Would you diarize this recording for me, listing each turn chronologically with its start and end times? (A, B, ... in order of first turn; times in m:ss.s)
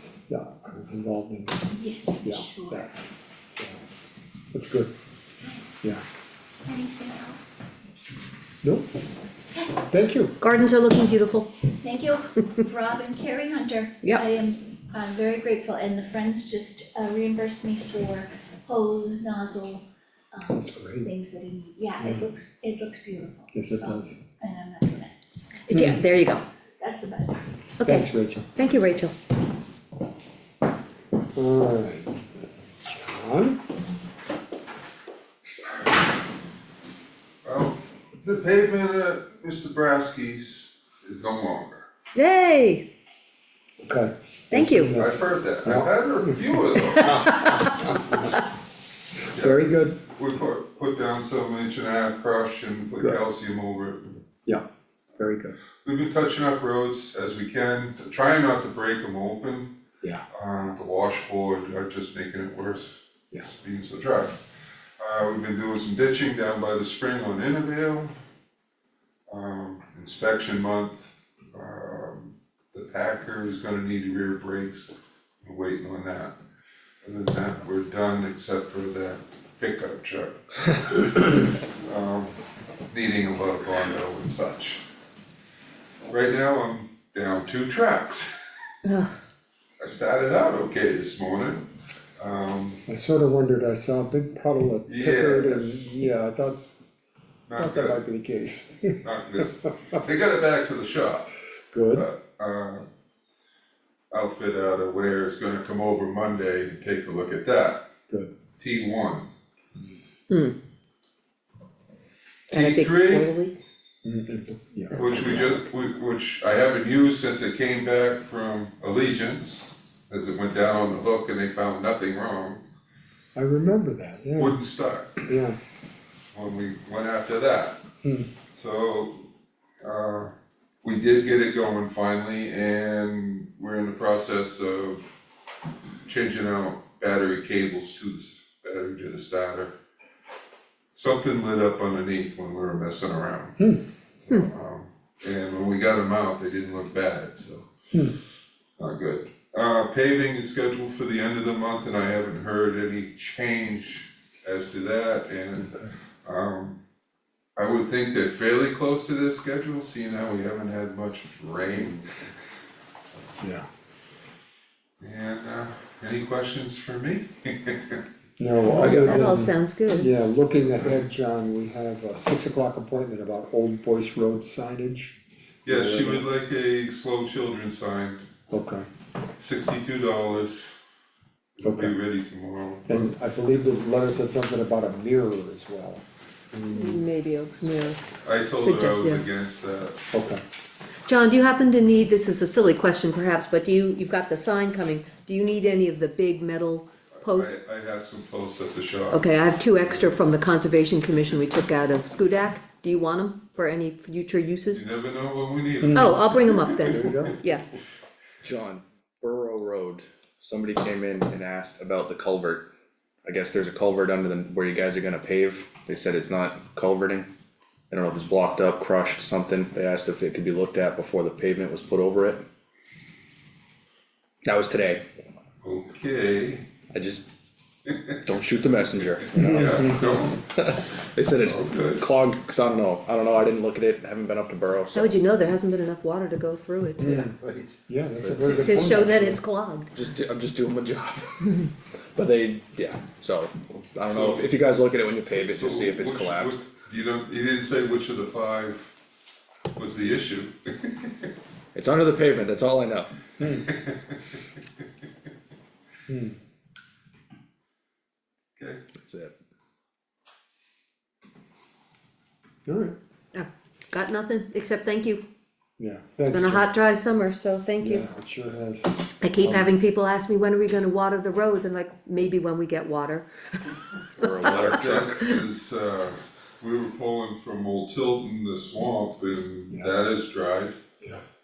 0:00.3-0:01.6 A
0:01.7-0:03.1 B
0:02.2-0:02.9 A
0:03.6-0:03.8 A
0:04.5-0:04.9 A
0:06.7-0:07.4 B
0:08.6-0:08.9 A
0:09.8-0:10.4 A
0:10.4-0:11.5 C
0:11.8-0:25.8 B
0:20.6-0:21.1 A
0:23.5-0:24.2 A
0:25.7-0:26.4 C
0:26.8-0:27.7 B
0:27.8-0:29.1 C
0:27.8-0:28.5 A
0:31.4-0:32.1 A
0:32.9-0:33.6 A
0:37.4-0:41.9 D
0:42.2-0:42.8 C
0:43.8-0:48.4 A
0:44.5-0:45.0 C
0:45.0-0:47.5 D
0:47.0-0:47.7 C
0:49.3-0:54.2 D
0:49.4-0:50.0 A
0:55.2-0:55.6 A
0:55.8-0:59.7 D
1:00.3-1:04.4 D
1:05.0-1:08.1 D
1:09.3-1:16.4 D
1:17.0-1:22.3 D
1:22.9-1:24.8 D
1:26.1-1:28.4 D
1:28.8-1:29.1 C
1:29.8-1:32.8 D
1:32.9-1:36.7 A
1:34.9-1:36.0 D
1:37.5-1:38.0 D
1:37.6-1:40.0 A
1:39.0-1:41.3 D
1:41.7-1:42.1 A
1:41.9-1:42.9 D
1:44.1-1:47.9 D
1:48.6-1:49.3 D
1:50.3-1:50.6 C
1:52.5-1:53.3 D
1:52.5-1:53.6 C
1:54.0-1:55.5 A
1:55.0-2:02.6 D
1:55.1-1:55.5 C
2:03.4-2:04.6 A
2:04.4-2:05.2 D
2:05.2-2:05.6 A
2:06.3-2:07.8 D
2:08.0-2:08.3 A
2:08.6-2:09.2 D
2:09.8-2:10.3 D
2:10.8-2:15.1 D
2:16.1-2:19.8 D
2:20.9-2:23.6 D
2:24.2-2:27.7 D
2:27.9-2:28.2 A
2:28.8-2:35.7 D
2:35.6-2:35.9 A
2:36.2-2:36.8 D
2:37.6-2:42.1 D
2:43.4-2:43.7 A
2:45.0-2:48.0 D
2:48.4-2:55.2 A
2:48.8-2:49.2 E
2:48.8-2:50.1 C
2:55.6-2:58.3 D
2:55.7-2:56.2 A
2:58.5-2:58.9 A
2:59.4-3:00.8 D
3:01.6-3:03.1 D
3:01.6-3:02.0 A
3:02.9-3:06.0 A
3:06.7-3:08.0 C
3:08.2-3:10.0 D
3:08.6-3:09.3 C
3:10.1-3:10.4 A
3:11.1-3:17.6 C
3:17.2-3:19.3 D
3:19.1-3:24.8 C
3:24.7-3:27.3 D
3:25.8-3:26.2 A
3:25.9-3:27.6 C
3:26.9-3:27.4 A
3:28.4-3:32.7 E
3:33.2-3:37.3 E
3:37.9-3:42.4 E
3:44.4-3:45.0 E
3:45.6-3:46.7 D
3:46.9-3:47.3 E
3:48.2-3:55.2 E
3:49.4-3:50.4 D
3:49.4-3:49.8 A
3:51.4-3:52.1 D
3:54.9-3:57.4 C
3:57.0-3:57.4 A
3:57.5-3:59.1 E
3:57.9-3:59.4 A
3:58.5-3:59.9 C
3:59.9-4:01.6 E
4:02.2-4:06.7 E
4:04.1-4:04.5 D
4:05.3-4:08.9 D
4:09.8-4:11.3 D
4:11.7-4:13.1 E
4:13.4-4:13.7 A
4:13.5-4:14.2 D
4:16.1-4:16.4 A
4:19.0-4:19.4 E
4:22.7-4:23.0 A
4:23.3-4:25.2 C
4:25.8-4:26.7 A
4:26.3-4:28.1 C
4:27.8-4:29.7 A
4:29.2-4:35.4 C
4:34.2-4:35.2 E
4:34.5-4:40.8 D